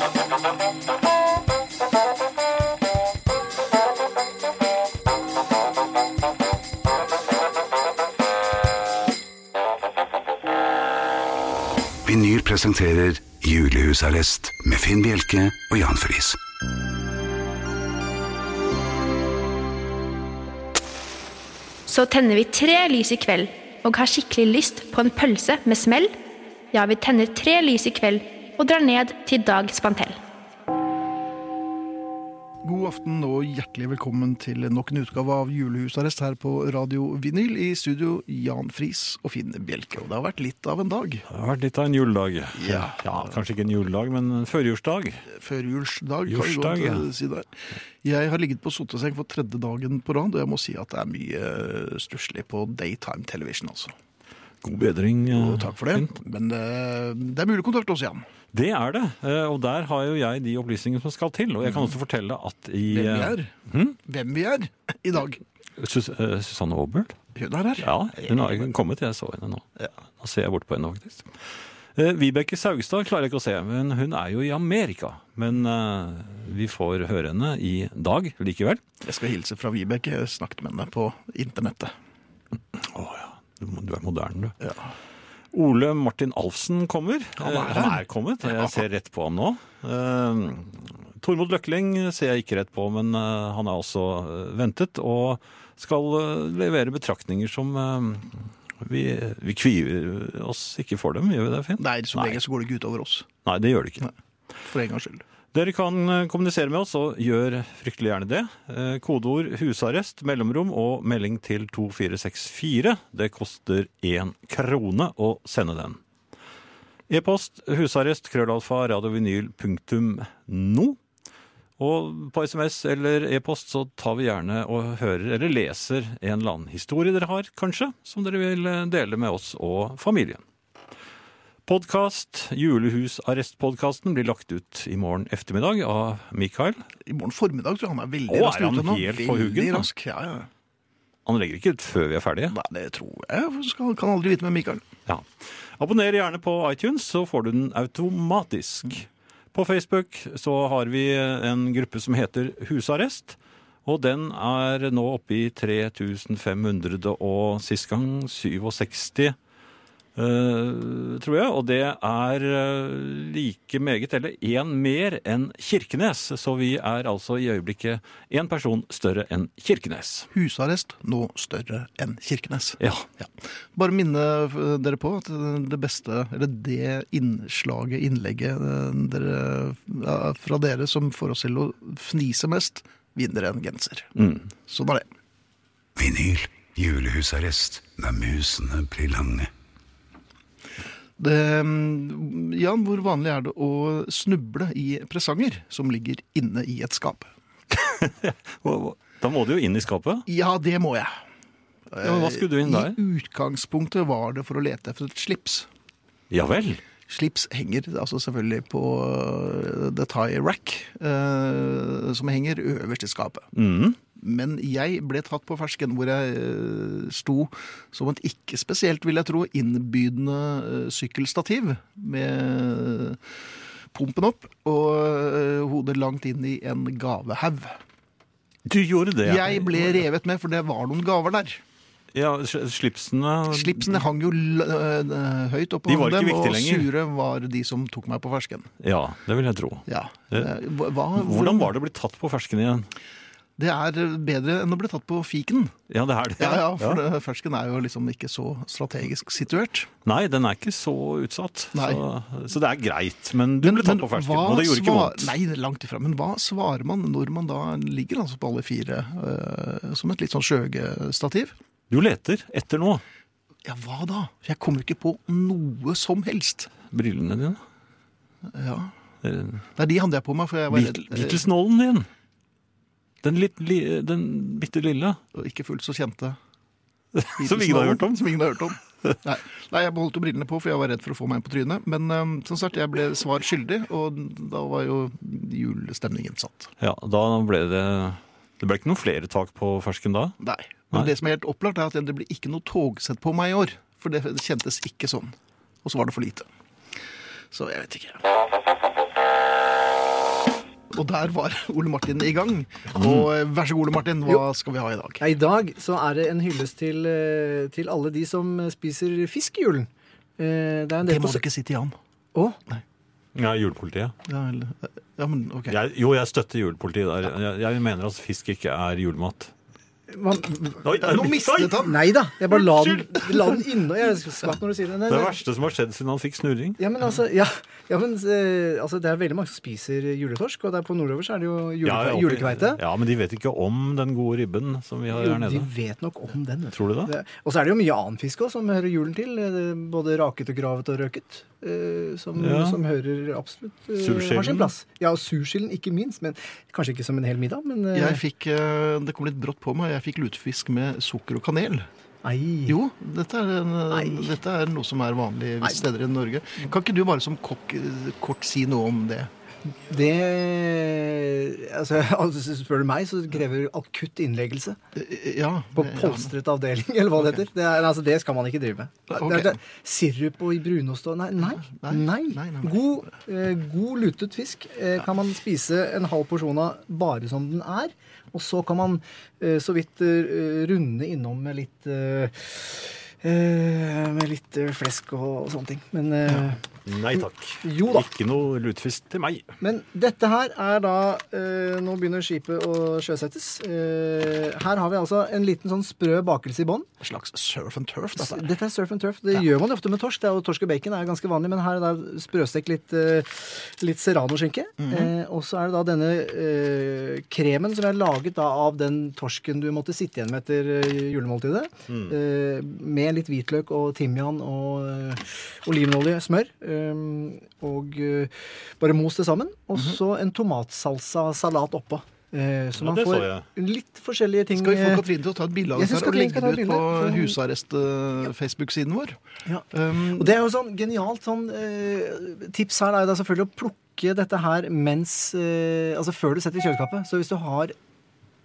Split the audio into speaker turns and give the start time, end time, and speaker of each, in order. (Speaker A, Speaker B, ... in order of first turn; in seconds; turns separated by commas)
Speaker A: 12.0-16.4, Speaker B: 21.9-26.1, Speaker B: 26.7-30.2, Speaker C: 32.6-41.3, Speaker D: 41.3-45.2, Speaker C: 42.5-43.4, Speaker C: 45.3-54.0, Speaker D: 46.3-47.1, Speaker D: 54.6-56.1, Speaker C: 55.3-58.2, Speaker D: 58.5-64.0, Speaker C: 61.6-62.0, Speaker C: 62.9-63.5, Speaker C: 64.0-65.4, Speaker D: 65.8-67.2, Speaker C: 67.3-68.7, Speaker D: 67.8-69.7, Speaker D: 70.2-71.3, Speaker D: 72.0-78.8, Speaker C: 79.0-81.9, Speaker D: 82.8-84.5, Speaker C: 84.6-84.9, Speaker D: 85.5-102.4, Speaker C: 87.4-88.8, Speaker C: 101.8-103.3, Speaker D: 103.5-104.1, Speaker C: 104.7-105.2, Speaker D: 105.5-116.0, Speaker D: 117.1-121.0, Speaker D: 121.8-130.4, Speaker D: 131.7-136.8, Speaker C: 137.1-140.5, Speaker D: 138.3-139.9, Speaker D: 141.3-142.6, Speaker C: 142.5-144.8, Speaker D: 145.1-159.4, Speaker D: 160.2-170.3, Speaker C: 170.3-184.1, Speaker D: 172.8-173.1, Speaker D: 184.2-184.5, Speaker C: 184.7-185.1, Speaker A: 186.0-189.5, Speaker C: 191.2-197.3, Speaker D: 197.7-200.2, Speaker C: 200.3-201.1, Speaker C: 201.9-205.7, Speaker D: 202.0-203.0, Speaker D: 206.3-206.8, Speaker C: 207.1-213.5, Speaker D: 213.6-214.0, Speaker C: 214.2-223.2, Speaker C: 223.9-227.8, Speaker D: 228.7-230.0, Speaker C: 229.2-231.6, Speaker D: 232.1-234.0, Speaker C: 233.5-238.7, Speaker D: 235.9-236.9, Speaker D: 238.8-240.5, Speaker C: 239.9-241.7, Speaker D: 241.2-242.9, Speaker C: 243.6-245.8, Speaker D: 245.9-247.0, Speaker C: 246.4-249.9, Speaker D: 250.1-255.3, Speaker C: 251.7-252.0, Speaker C: 253.6-261.5, Speaker D: 261.9-263.0, Speaker C: 263.6-266.7, Speaker D: 266.9-267.6, Speaker C: 268.5-268.9, Speaker D: 269.2-269.6, Speaker C: 269.8-271.5, Speaker D: 270.7-272.1, Speaker D: 273.2-275.2, Speaker C: 275.3-276.4, Speaker D: 277.1-278.4, Speaker C: 277.4-286.7, Speaker D: 286.8-290.4, Speaker C: 290.4-296.5, Speaker C: 297.5-298.2, Speaker C: 300.9-305.2, Speaker D: 303.0-303.3, Speaker E: 305.2-311.4, Speaker C: 311.0-312.0, Speaker D: 313.4-314.1, Speaker C: 314.3-315.8, Speaker D: 315.7-319.5, Speaker E: 320.1-320.9, Speaker D: 320.8-321.8, Speaker C: 321.0-323.5, Speaker E: 321.8-325.4, Speaker D: 325.1-326.8, Speaker E: 326.8-332.8, Speaker D: 331.8-335.7, Speaker E: 335.1-348.2, Speaker D: 336.7-337.1, Speaker D: 342.4-342.8, Speaker D: 344.0-344.7, Speaker C: 347.9-351.9, Speaker E: 352.2-352.8, Speaker C: 352.7-359.3, Speaker E: 353.9-354.3, Speaker E: 359.8-364.8, Speaker C: 364.9-366.3, Speaker E: 365.8-386.6, Speaker C: 369.1-369.6, Speaker C: 371.4-373.0, Speaker D: 386.9-389.5, Speaker E: 387.1-388.1, Speaker E: 389.6-396.9, Speaker C: 397.0-398.5, Speaker E: 398.2-425.1, Speaker C: 404.8-405.1, Speaker D: 422.8-423.5, Speaker C: 424.6-429.2, Speaker E: 425.8-427.4, Speaker E: 429.5-437.8, Speaker C: 429.7-430.3